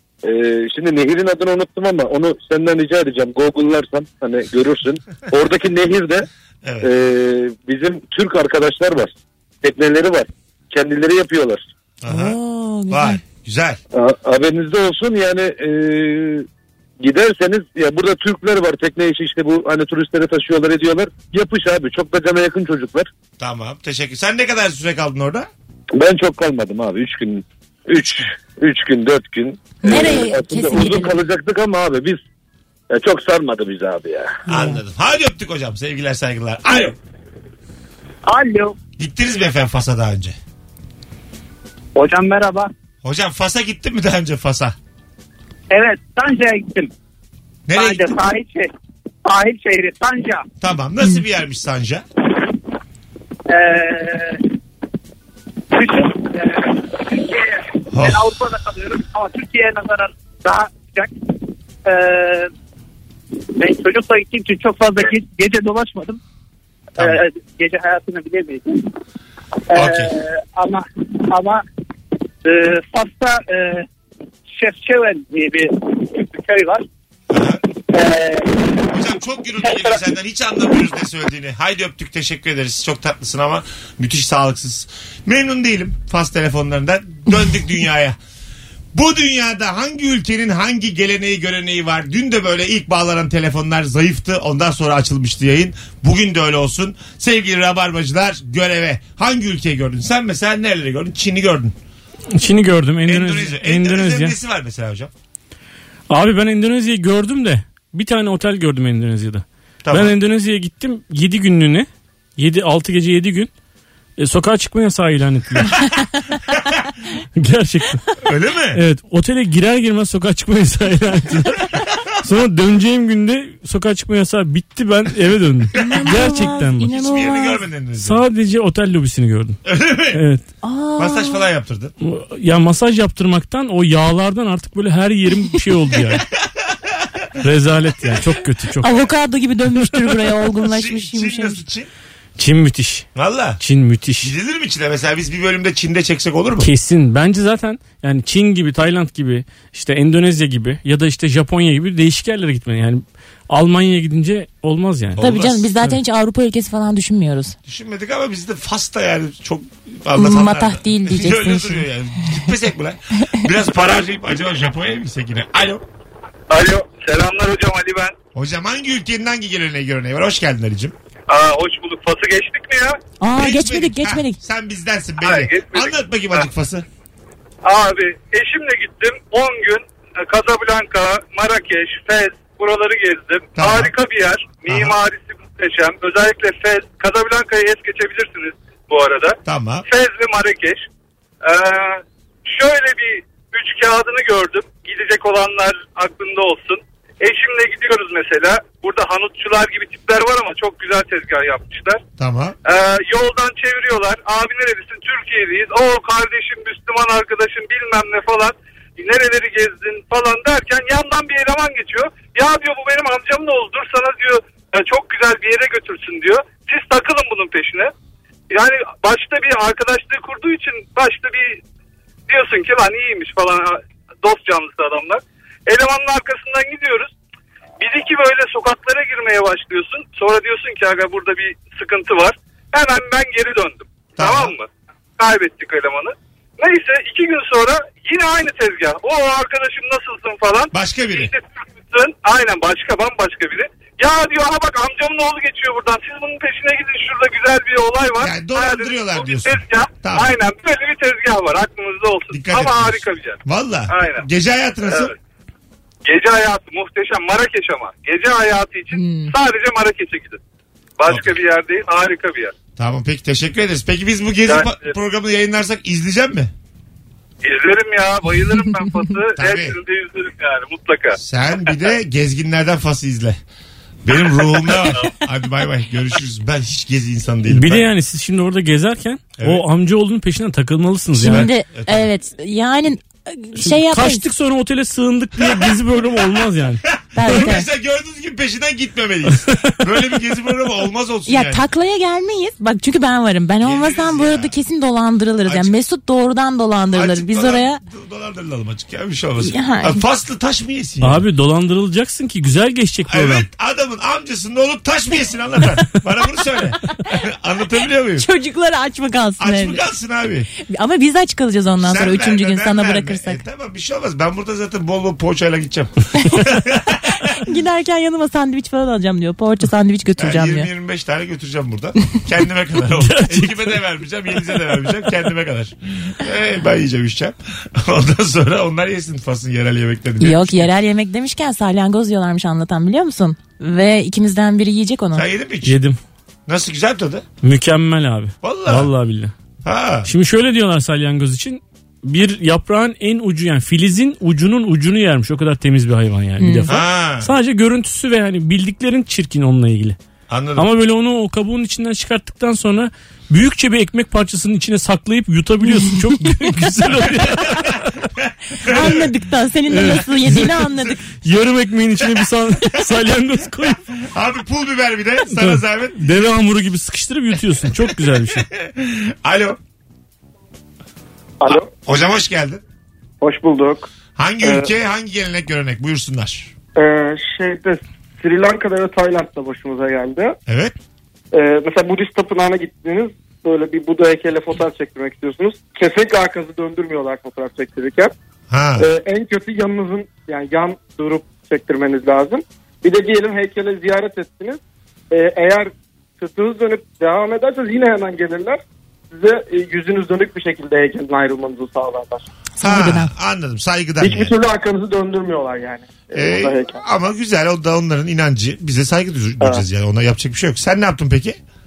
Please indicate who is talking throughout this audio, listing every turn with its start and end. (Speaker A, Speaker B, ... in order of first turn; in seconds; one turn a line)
Speaker A: 0.2-6.3
Speaker B: 6.6-6.9
Speaker A: 6.8-11.6
Speaker B: 12.0-12.4
Speaker C: 12.1-13.2
Speaker B: 12.9-13.8
Speaker A: 13.9-16.4
Speaker A: 17.0-23.1
Speaker B: 23.4-25.5
Speaker A: 25.9-32.2
Speaker C: 29.8-31.2
Speaker A: 32.9-34.4
Speaker B: 34.5-37.0
Speaker D: 38.2-38.8
Speaker B: 39.0-40.4
Speaker D: 41.9-42.7
Speaker B: 43.0-44.7
Speaker D: 45.7-46.9
Speaker B: 47.7-48.1
Speaker D: 47.7-48.7
Speaker D: 49.2-50.4
Speaker B: 50.6-52.0
Speaker D: 53.5-54.4
Speaker D: 55.7-62.5
Speaker B: 57.9-58.3
Speaker D: 63.6-66.2
Speaker D: 67.0-68.9
Speaker D: 69.7-71.6
Speaker B: 69.7-70.1
Speaker D: 72.4-73.8
Speaker D: 74.6-76.8
Speaker B: 77.3-77.6
Speaker D: 77.9-79.0
Speaker B: 78.9-88.2
Speaker D: 79.6-80.0
Speaker B: 88.9-101.7
Speaker E: 102.3-104.3
Speaker B: 103.0-105.1
Speaker E: 106.1-113.5
Speaker B: 109.8-110.1
Speaker E: 114.2-115.9
Speaker E: 117.3-118.0
Speaker B: 118.2-118.8
Speaker E: 118.7-126.9
Speaker C: 125.8-127.6
Speaker B: 125.8-126.2
Speaker B: 126.8-128.2
Speaker E: 128.0-129.6
Speaker B: 129.6-130.2
Speaker E: 130.1-130.4
Speaker C: 130.6-131.4
Speaker B: 131.0-131.9
Speaker E: 132.0-136.2
Speaker B: 136.6-137.3
Speaker E: 137.4-139.1
Speaker C: 138.8-141.6
Speaker B: 140.4-141.9
Speaker E: 142.4-143.1
Speaker B: 143.1-143.6
Speaker E: 143.6-144.3
Speaker B: 144.2-146.7
Speaker E: 146.6-155.2
Speaker B: 155.2-155.7
Speaker C: 155.2-157.5
Speaker B: 157.7-165.8
Speaker C: 160.1-162.3
Speaker F: 166.5-168.1
Speaker B: 168.3-170.9
Speaker F: 171.3-173.0
Speaker C: 173.2-174.4
Speaker B: 173.3-176.8
Speaker F: 175.2-176.4
Speaker F: 177.6-190.8
Speaker B: 183.6-183.9
Speaker B: 184.7-184.9
Speaker B: 189.4-189.8
Speaker F: 191.4-202.0
Speaker B: 202.2-202.6
Speaker F: 202.6-217.9
Speaker F: 218.5-221.6
Speaker F: 222.3-227.1
Speaker F: 227.8-254.2
Speaker B: 234.2-234.5
Speaker B: 240.7-241.3
Speaker B: 248.2-250.4
Speaker B: 252.3-255.1
Speaker F: 254.8-255.1
Speaker F: 256.1-260.4
Speaker C: 258.9-259.3
Speaker F: 261.0-262.5
Speaker B: 261.1-261.4
Speaker B: 262.8-266.5
Speaker F: 264.4-264.9
Speaker F: 267.4-271.2
Speaker B: 269.4-269.8
Speaker B: 271.1-273.4
Speaker B: 274.0-277.9
Speaker E: 277.5-281.5
Speaker B: 279.4-279.6
Speaker B: 281.2-282.1
Speaker C: 281.2-284.2
Speaker E: 283.6-287.5
Speaker B: 285.4-285.8
Speaker B: 286.8-291.6
Speaker C: 287.1-287.6
Speaker E: 289.4-289.7
Speaker C: 291.3-297.8
Speaker B: 293.6-294.6
Speaker B: 295.4-295.7
Speaker B: 296.9-301.2
Speaker C: 299.4-300.0
Speaker E: 301.0-303.4
Speaker B: 303.1-308.3
Speaker C: 308.2-309.8
Speaker B: 309.4-310.5
Speaker C: 310.7-313.4
Speaker B: 311.8-317.2
Speaker C: 317.2-320.7
Speaker B: 320.2-330.7
Speaker E: 323.0-323.8
Speaker C: 330.2-335.3
Speaker B: 335.1-335.8
Speaker E: 335.6-336.0
Speaker B: 336.5-337.2
Speaker E: 337.4-339.3
Speaker B: 338.4-338.9
Speaker B: 339.6-340.1
Speaker E: 340.1-350.0
Speaker C: 346.4-346.7
Speaker B: 346.7-347.3
Speaker B: 350.3-350.7
Speaker E: 350.6-357.9
Speaker B: 357.2-359.1
Speaker C: 358.6-361.0
Speaker E: 359.7-360.7
Speaker E: 361.2-363.8
Speaker B: 364.0-366.0
Speaker E: 365.3-368.4
Speaker B: 368.4-369.6
Speaker G: 371.4-371.7
Speaker B: 371.5-372.6
Speaker G: 373.2-373.9
Speaker B: 374.1-376.5
Speaker G: 374.4-374.7
Speaker G: 376.8-380.4
Speaker B: 380.5-380.7
Speaker G: 381.3-388.1
Speaker B: 388.5-388.9
Speaker G: 388.8-402.2
Speaker C: 402.6-403.1
Speaker B: 402.6-404.3
Speaker G: 404.0-406.8
Speaker B: 406.1-411.4